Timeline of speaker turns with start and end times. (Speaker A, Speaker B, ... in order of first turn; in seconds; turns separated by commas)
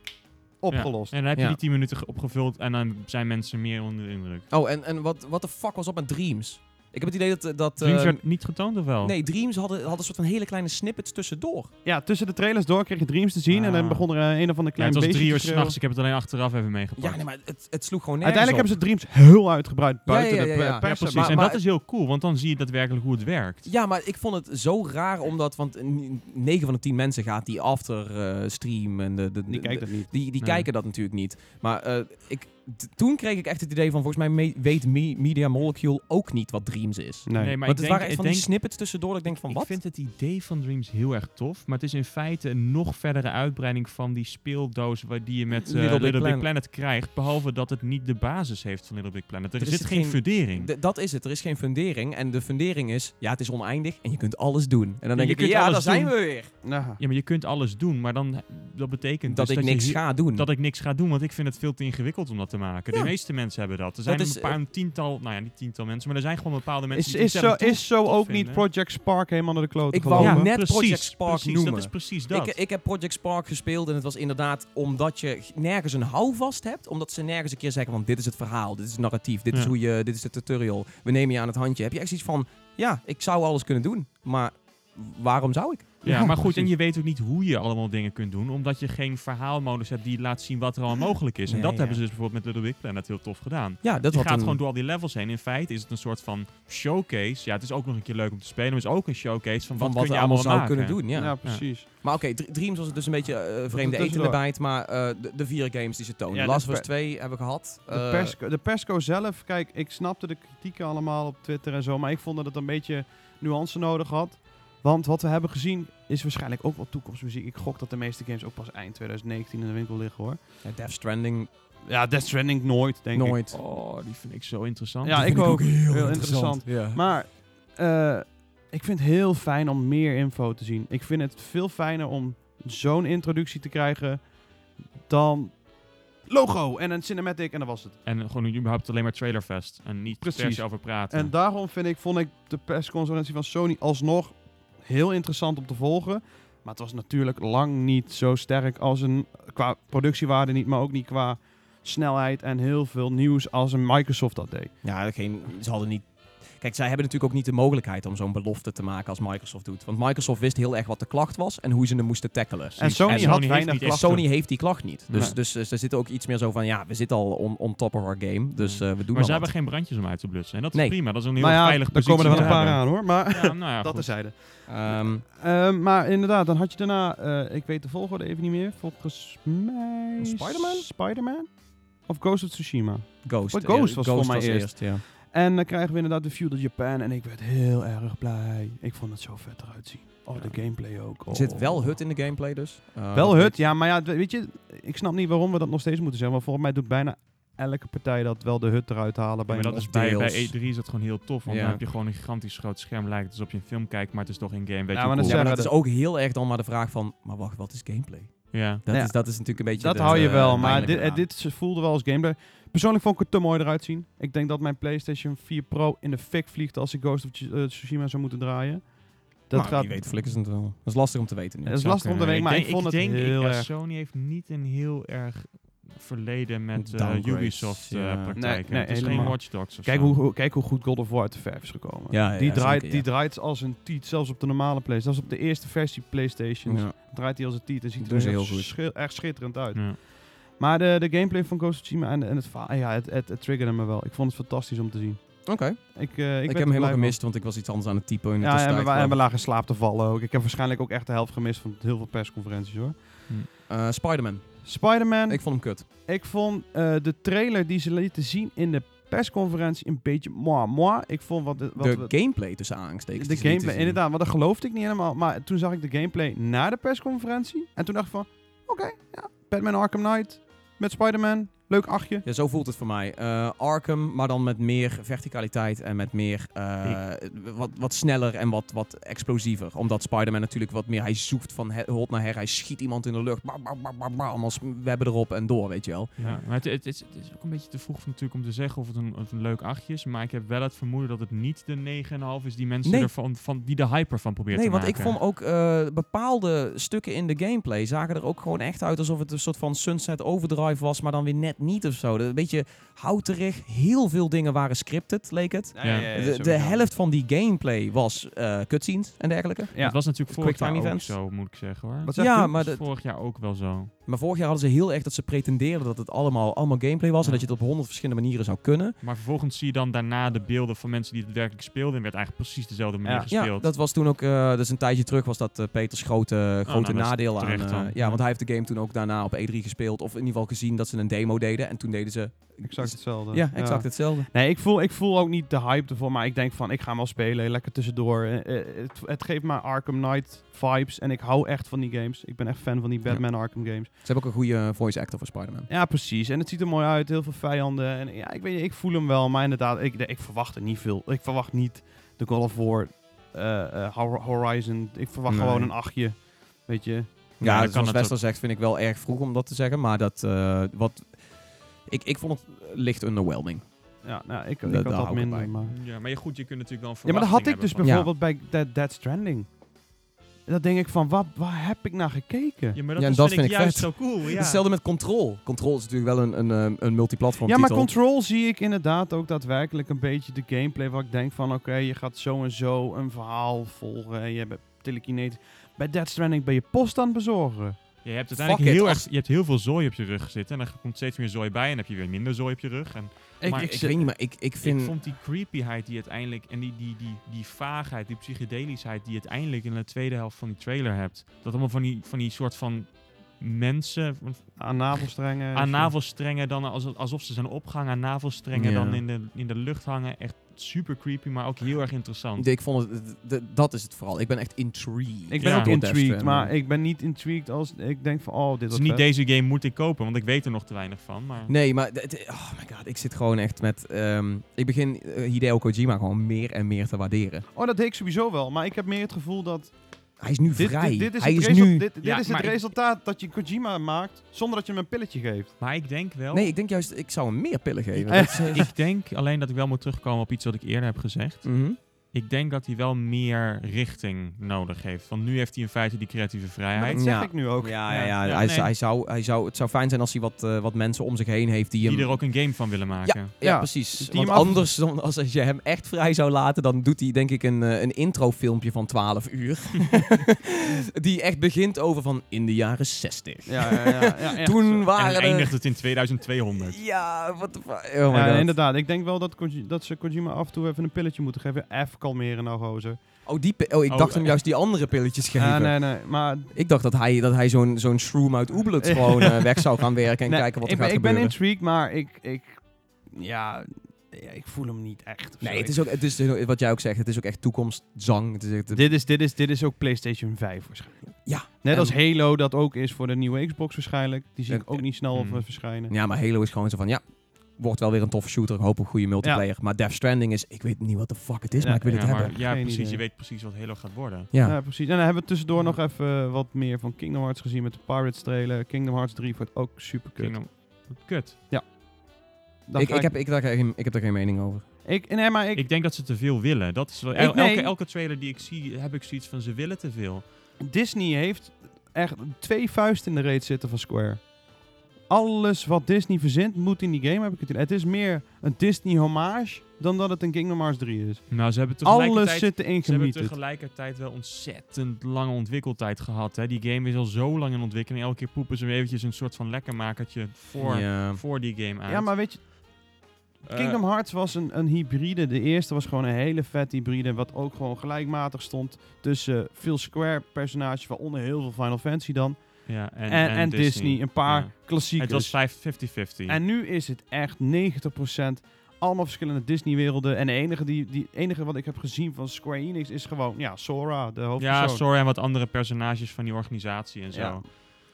Speaker A: 0.6-1.2, Speaker B: 0.7-4.5, Speaker C: 4.5-8.2, Speaker B: 7.8-9.1, Speaker C: 9.0-11.7, Speaker A: 11.8-15.8, Speaker B: 13.5-14.1, Speaker B: 14.8-17.2, Speaker C: 17.0-18.7, Speaker A: 18.2-21.5, Speaker C: 20.1-21.6, Speaker B: 20.8-23.7, Speaker C: 23.6-39.8, Speaker A: 29.5-30.1, Speaker B: 30.4-30.7, Speaker A: 37.3-37.6, Speaker B: 37.4-38.5, Speaker B: 39.2-50.7, Speaker C: 45.5-46.5, Speaker C: 49.6-56.5, Speaker B: 55.1-56.2, Speaker A: 56.6-57.0, Speaker B: 57.0-68.7, Speaker C: 59.3-60.5, Speaker C: 64.1-64.6, Speaker A: 66.9-70.5, Speaker C: 69.9-86.0, Speaker B: 70.2-72.6, Speaker A: 86.0-86.7, Speaker B: 86.0-101.7, Speaker C: 91.5-92.0, Speaker C: 93.8-94.6, Speaker C: 99.8-108.4, Speaker A: 101.1-101.9, Speaker A: 103.7-104.4, Speaker A: 106.3-106.9, Speaker A: 107.9-120.4, Speaker C: 120.6-121.5, Speaker A: 121.9-123.4, Speaker C: 123.1-123.6, Speaker B: 123.5-125.5, Speaker A: 125.0-134.3, Speaker C: 125.1-127.0, Speaker A: 135.1-135.6, Speaker A: 136.3-138.0, Speaker B: 138.1-141.3, Speaker A: 140.2-154.7, Speaker C: 154.8-169.5, Speaker A: 162.8-164.3, Speaker B: 162.8-164.3, Speaker B: 165.1-165.4, Speaker B: 168.6-174.1, Speaker C: 170.7-171.0, Speaker A: 171.4-192.0, Speaker C: 172.2-172.7, Speaker C: 174.7-175.2, Speaker C: 180.2-180.9, Speaker C: 183.2-185.0, Speaker C: 191.3-193.6, Speaker A: 193.1-199.8, Speaker B: 199.5-205.4, Speaker C: 199.7-200.6, Speaker C: 201.4-201.8, Speaker A: 204.9-205.7, Speaker C: 205.2-211.3, Speaker B: 208.5-208.8, Speaker A: 208.9-220.0, Speaker B: 210.0-210.9, Speaker C: 219.5-221.9, Speaker A: 221.7-223.7, Speaker B: 221.8-230.2, Speaker C: 226.8-228.4, Speaker A: 228.4-247.2, Speaker C: 232.1-233.1, Speaker C: 236.7-236.9, Speaker C: 238.0-238.7, Speaker B: 239.7-240.0, Speaker C: 245.5-249.2, Speaker A: 248.4-253.0, Speaker C: 253.7-255.9, Speaker A: 254.6-262.2, Speaker C: 261.8-264.0, Speaker A: 263.1-272.2, Speaker C: 272.2-286.2, Speaker B: 286.2-295.2, Speaker C: 292.8-293.1, Speaker C: 294.5-311.2, Speaker A: 305.8-306.8, Speaker B: 305.8-306.1, Speaker A: 309.7-310.0, Speaker B: 309.8-313.9, Speaker A: 312.0-312.5, Speaker C: 312.2-312.8, Speaker C: 314.1-319.0, Speaker B: 317.2-317.5, Speaker B: 319.0-323.7, Speaker A: 323.1-323.3, Speaker C: 323.3-334.3, Speaker B: 326.7-328.2, Speaker A: 332.6-343.9, Speaker C: 344.0-345.7, Speaker A: 345.7-357.1, Speaker C: 355.3-355.7, Speaker C: 357.4-361.3, Speaker B: 357.4-358.1, Speaker C: 361.9-363.6, Speaker A: 364.0-365.7, Speaker C: 364.6-365.5, Speaker B: 365.6-367.9, Speaker A: 367.1-369.5, Speaker C: 367.8-368.1, Speaker A: 370.5-372.8, Speaker B: 372.8-374.6, Speaker C: 373.0-377.9, Speaker A: 377.4-387.8, Speaker B: 388.0-393.8, Speaker C: 388.4-389.1, Speaker A: 393.4-394.0, Speaker C: 393.5-395.0, Speaker B: 394.6-412.5, Speaker A: 404.6-405.9, Speaker C: 408.5-409.0, Speaker C: 412.4-416.5, Speaker A: 415.3-419.0, Speaker B: 415.4-415.7, Speaker B: 418.7-421.5, Speaker C: 421.5-427.5, Speaker A: 427.6-429.7, Speaker C: 430.2-431.9, Speaker A: 430.6-435.5, Speaker B: 432.0-432.7, Speaker B: 435.6-436.5, Speaker C: 436.3-438.7, Speaker A: 438.1-438.7, Speaker B: 438.3-441.5, Speaker C: 441.4-441.8, Speaker B: 442.1-447.0, Speaker A: 446.8-448.1, Speaker C: 446.9-465.5, Speaker B: 447.9-448.7, Speaker B: 451.8-453.3, Speaker A: 453.4-454.6, Speaker A: 463.5-464.9, Speaker B: 464.9-466.8, Speaker C: 466.6-468.5, Speaker A: 468.1-473.0, Speaker C: 473.3-475.8, Speaker B: 473.9-474.4, Speaker A: 475.4-476.5, Speaker C: 476.5-481.4, Speaker A: 478.8-479.6, Speaker A: 480.3-482.6, Speaker A: 483.1-485.9, Speaker C: 485.4-488.8, Speaker A: 488.7-495.9, Speaker C: 491.2-492.0, Speaker C: 494.5-494.8, Speaker B: 495.1-495.4, Speaker C: 495.9-497.0, Speaker C: 497.5-502.4, Speaker A: 501.6-503.0, Speaker B: 501.9-504.3, Speaker C: 504.3-504.6, Speaker A: 504.4-510.6, Speaker B: 510.2-511.4, Speaker A: 512.7-513.1, Speaker C: 512.8-514.7, Speaker A: 514.9-515.7, Speaker B: 515.5-520.2, Speaker A: 517.2-517.7, Speaker A: 520.6-524.3, Speaker A: 525.1-533.3, Speaker B: 531.3-542.1, Speaker C: 540.6-541.2, Speaker A: 541.9-542.5, Speaker A: 543.4-564.8, Speaker B: 543.5-543.8, Speaker B: 552.7-556.4, Speaker B: 564.4-567.4, Speaker A: 567.1-567.5